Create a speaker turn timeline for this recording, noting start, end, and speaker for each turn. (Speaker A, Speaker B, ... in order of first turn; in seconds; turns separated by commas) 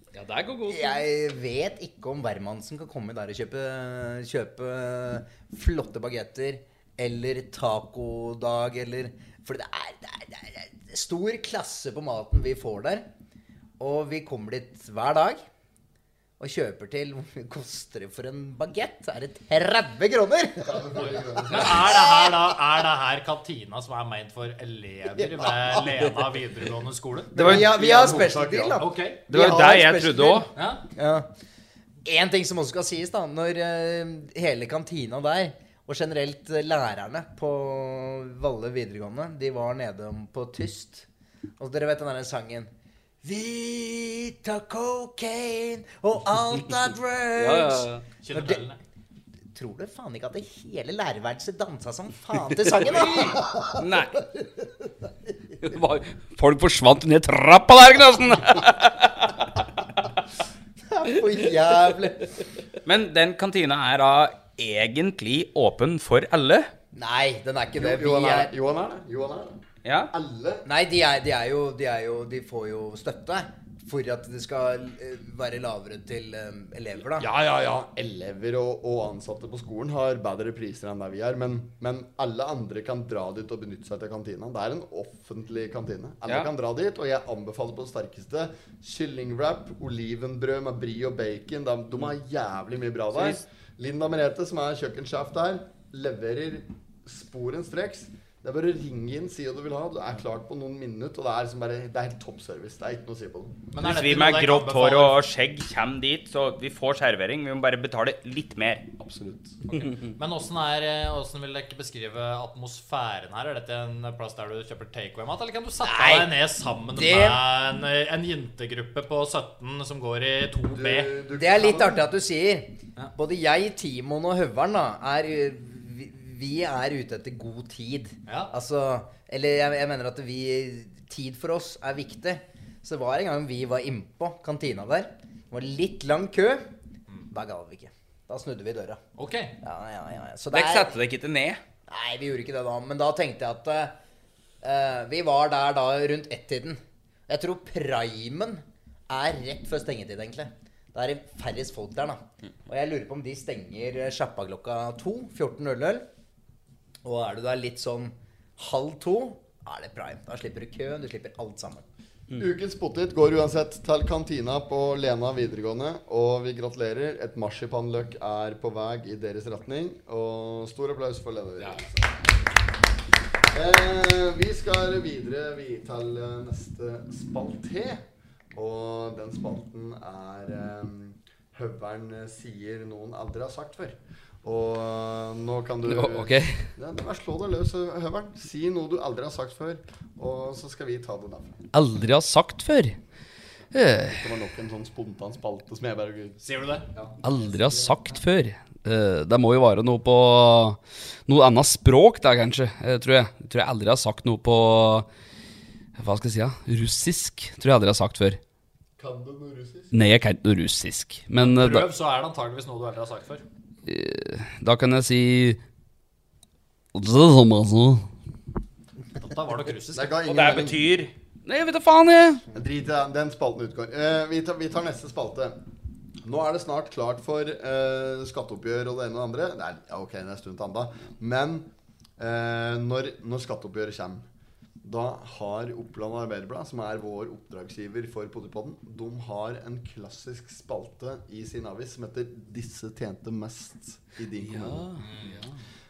Speaker A: 0.1-1.0, Speaker B: 0.7-13.1, Speaker B: 13.8-15.4, Speaker B: 16.4-20.8, Speaker C: 20.6-22.0, Speaker D: 21.5-27.3, Speaker B: 27.3-31.3, Speaker E: 27.4-27.6, Speaker C: 27.4-28.8, Speaker D: 28.8-29.2, Speaker E: 29.3-30.5, Speaker D: 30.5-30.8, Speaker B: 32.0-41.0, Speaker B: 41.6-42.7, Speaker B: 43.2-48.6, Speaker A: 47.4-48.0, Speaker D: 48.2-48.8, Speaker B: 49.5-53.8, Speaker E: 53.0-54.2, Speaker A: 55.6-59.5, Speaker B: 60.9-62.3, Speaker E: 62.9-66.7, Speaker B: 66.9-68.5, Speaker C: 67.7-70.6, Speaker E: 69.8-70.1, Speaker B: 70.6-77.3, Speaker C: 77.2-103.6, Speaker E: 93.1-93.4, Speaker D: 103.7-105.2, Speaker E: 103.8-108.9, Speaker D: 109.7-121.1, Speaker A: 109.7-110.1, Speaker B: 115.8-116.3, Speaker B: 117.0-117.4, Speaker C: 120.7-122.1, Speaker B: 121.4-136.7, Speaker D: 128.3-128.5, Speaker B: 137.3-139.0, Speaker D: 139.2-139.6, Speaker B: 139.6-141.0, Speaker E: 140.5-141.6, Speaker B: 141.9-143.9, Speaker B: 144.6-156.0, Speaker B: 157.0-161.8, Speaker C: 162.4-172.1, Speaker C: 173.5-191.6, Speaker A: 185.9-186.7, Speaker A: 191.7-193.0, Speaker A: 193.7-194.2, Speaker C: 194.1-196.4, Speaker D: 196.4-196.9, Speaker A: 197.2-205.1, Speaker A: 206.0-208.4, Speaker C: 209.0-209.9, Speaker A: 209.9-211.9, Speaker D: 211.4-213.4, Speaker A: 213.8-215.6, Speaker A: 216.9-218.1, Speaker D: 219.2-220.2, Speaker C: 219.9-220.8, Speaker E: 220.2-221.1, Speaker A: 221.4-222.4, Speaker C: 222.5-225.6, Speaker C: 226.2-231.7, Speaker C: 232.2-234.2, Speaker C: 234.8-244.9, Speaker A: 244.4-245.6, Speaker D: 245.0-245.3